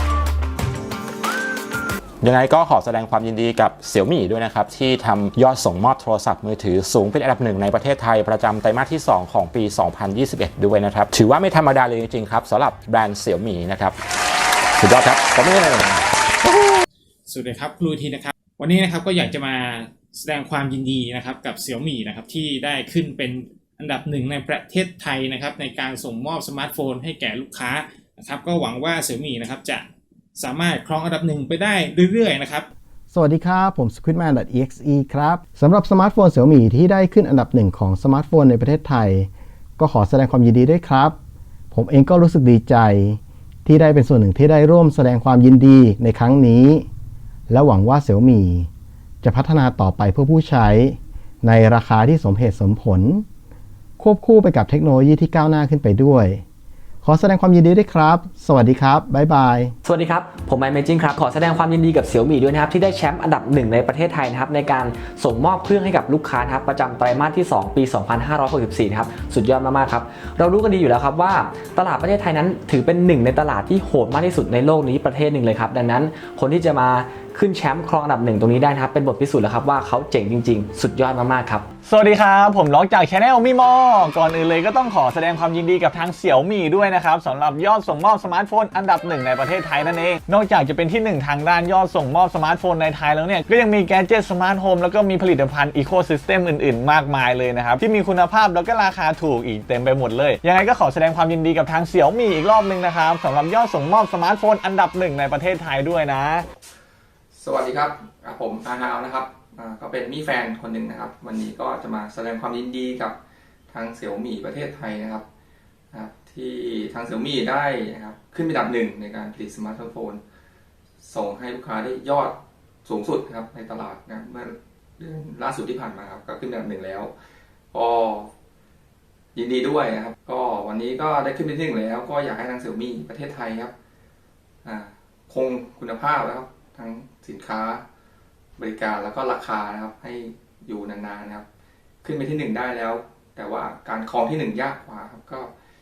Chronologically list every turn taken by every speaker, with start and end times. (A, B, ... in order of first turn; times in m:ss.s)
0:02.2-0:14.0 A
0:14.8-0:16.0 A
0:17.2-0:32.7 B
0:33.1-0:41.2 C
0:41.7-0:46.8 C
0:47.5-0:48.7 C
0:49.2-0:53.2 C
0:54.0-0:56.4 C
0:57.0-0:59.7 C
0:59.8-1:21.7 D
1:21.8-1:46.4 E
1:47.3-1:53.2 F
1:53.7-1:55.2 F
1:55.9-2:00.2 F
2:01.0-2:07.1 F
2:07.7-2:08.3 F
2:09.3-2:13.7 F
2:14.6-2:17.8 F
2:18.6-2:21.4 F
2:22.0-2:25.5 F